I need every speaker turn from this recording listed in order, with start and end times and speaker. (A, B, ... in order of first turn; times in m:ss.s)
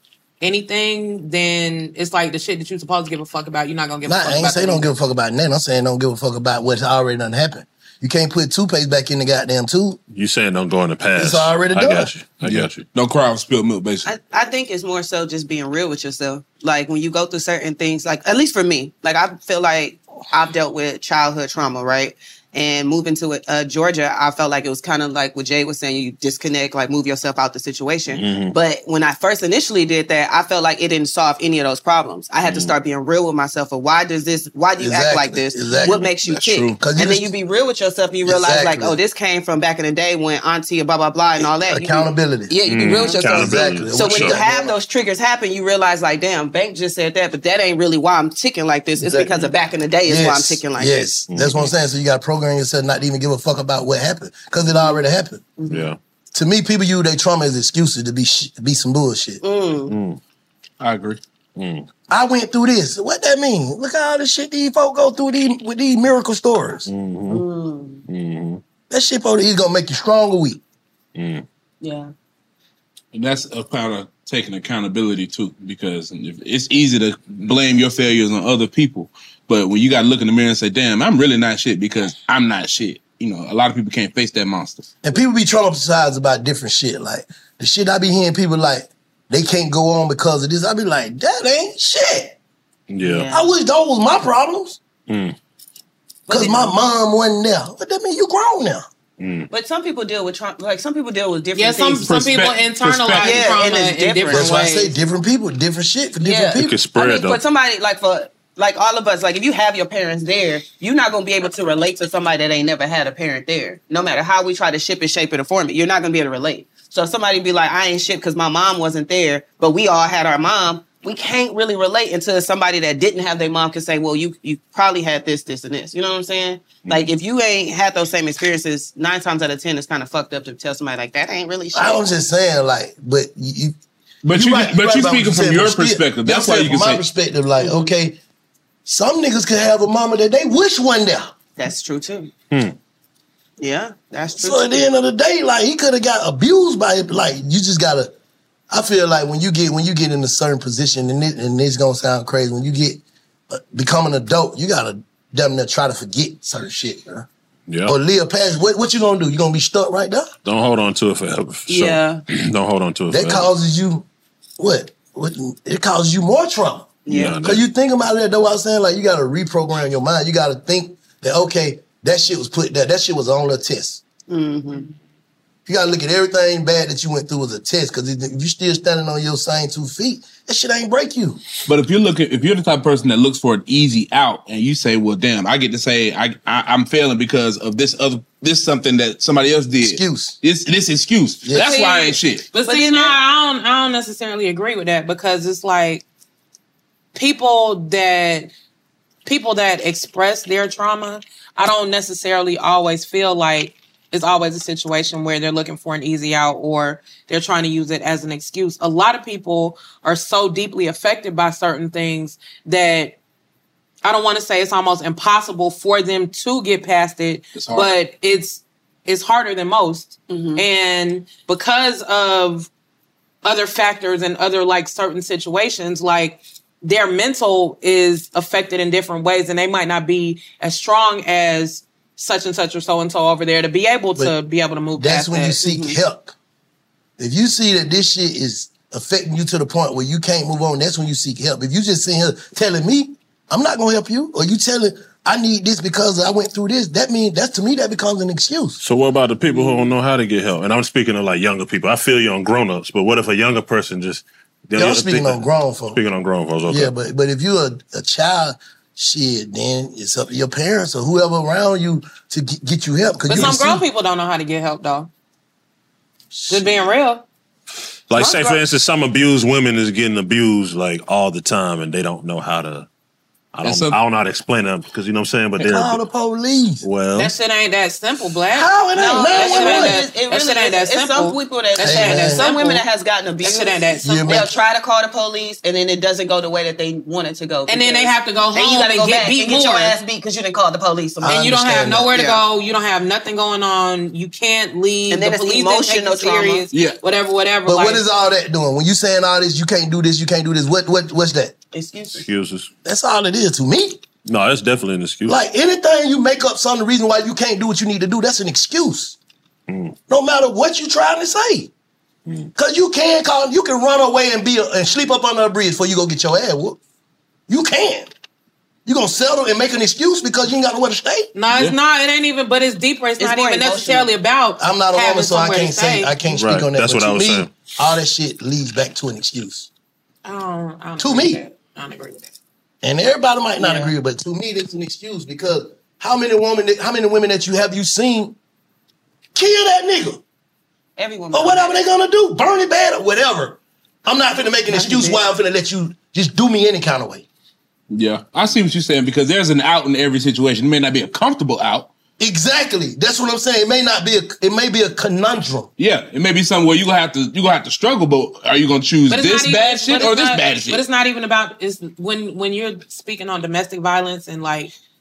0:00.4-0:04.9 A
0:04.0-0:10.0 B
0:10.1-0:12.8 C
0:11.2-0:12.1 B
0:12.5-0:14.1 D
0:14.0-0:51.1 E
0:28.1-0:28.6 C
0:32.4-0:32.8 C
0:34.8-0:37.3 B
0:35.8-0:36.5 C
0:38.2-0:39.0 B
0:41.4-0:44.8 B
0:42.6-0:44.4 C
0:49.0-0:49.4 B
0:50.1-0:55.4 B
0:51.3-0:51.7 C
0:54.7-0:55.0 E
0:55.6-0:55.9 E
0:55.7-0:56.0 C
0:56.3-0:59.4 B
0:59.4-1:00.0 E
0:59.9-1:00.2 C
1:00.8-1:01.2 D
1:01.6-1:01.9 C
1:02.1-1:06.9 B
1:06.9-1:07.4 C
1:07.3-1:08.0 E
1:08.1-1:08.6 C
1:08.9-1:10.6 B
1:11.1-1:11.4 C
1:11.8-1:12.1 E
1:13.1-1:24.9 D
1:25.0-1:32.4 B
1:32.9-1:33.3 C
1:33.0-1:33.5 E
1:33.3-1:34.8 B
1:35.1-1:35.4 C
1:36.3-1:36.8 E
1:36.3-1:38.8 B
1:39.2-1:39.5 C
1:39.5-1:42.1 E
1:41.6-1:44.9 A
1:42.0-1:43.6 D
1:43.1-1:44.7 E
1:44.3-1:46.8 B
1:46.2-2:12.0 E
1:46.6-1:47.4 C
2:06.8-2:07.1 C
2:11.7-2:13.8 B
2:14.2-2:17.0 D
2:14.3-2:18.2 B
2:17.6-2:17.9 E
2:18.9-2:21.3 B
2:21.6-2:22.3 E
2:22.5-2:22.8 C
2:23.6-2:24.9 E
2:24.4-2:28.1 B
2:28.7-2:37.3 B
2:37.7-2:38.0 C
2:37.9-2:40.3 B
2:40.4-2:43.5 C
2:41.7-2:42.2 E
2:43.1-2:44.1 B
2:44.6-2:54.0 B
2:47.1-2:47.4 E
2:47.1-2:47.6 C
2:54.3-2:54.9 E
2:55.7-3:01.4 B
3:01.6-3:12.5 D
3:09.8-3:10.4 B
3:11.4-3:11.7 B
3:11.7-3:13.2 E
3:12.5-3:16.0 A
3:17.1-3:18.5 A
3:19.2-3:33.2 A
3:34.0-3:42.7 A
3:37.6-3:37.9 D
3:40.3-3:40.6 E
3:43.4-3:55.6 A
3:55.0-3:56.3 B
3:55.6-3:56.0 E
3:57.2-4:08.8 B
4:08.8-4:16.9 C
4:09.5-4:09.9 E
4:14.8-4:16.0 B
4:16.7-4:23.8 B
4:23.3-4:25.1 A
4:26.3-4:26.8 B
4:26.5-4:27.2 A
4:28.1-4:32.9 C
4:28.2-4:28.6 E
4:33.5-4:36.0 C
4:33.6-4:34.0 D
4:35.6-4:36.9 B
4:36.8-4:37.3 C
4:37.2-4:42.8 A
4:38.5-4:40.0 B
4:39.0-4:51.4 E
4:41.8-4:42.4 B
4:43.4-4:44.4 A
4:44.0-4:44.5 B
4:47.7-4:50.0 A
4:51.2-4:52.1 B
4:51.3-4:58.0 A
4:52.1-4:52.4 E
4:55.1-4:56.6 E
4:56.7-4:57.0 D
4:57.7-5:01.5 B
5:01.7-5:02.2 E
5:02.1-5:02.7 C
5:02.8-5:04.0 B
5:04.2-5:05.4 C
5:05.3-5:09.2 B
5:09.7-5:10.0 C
5:10.1-5:11.7 B
5:12.6-5:16.8 B
5:17.5-5:18.1 B
5:18.9-5:21.3 B
5:21.4-5:26.1 A
5:23.2-5:24.1 E
5:24.6-5:29.7 B
5:26.3-5:27.5 C
5:30.2-5:32.3 A
5:31.0-5:31.4 B
5:32.8-5:38.4 B
5:33.6-5:33.9 E
5:39.4-5:40.2 B
5:41.0-5:41.7 E
5:41.3-5:47.2 B
5:44.7-5:45.2 E
5:47.9-5:51.9 D
5:52.2-5:55.7 B
5:55.8-6:00.8 D
5:59.1-6:04.7 A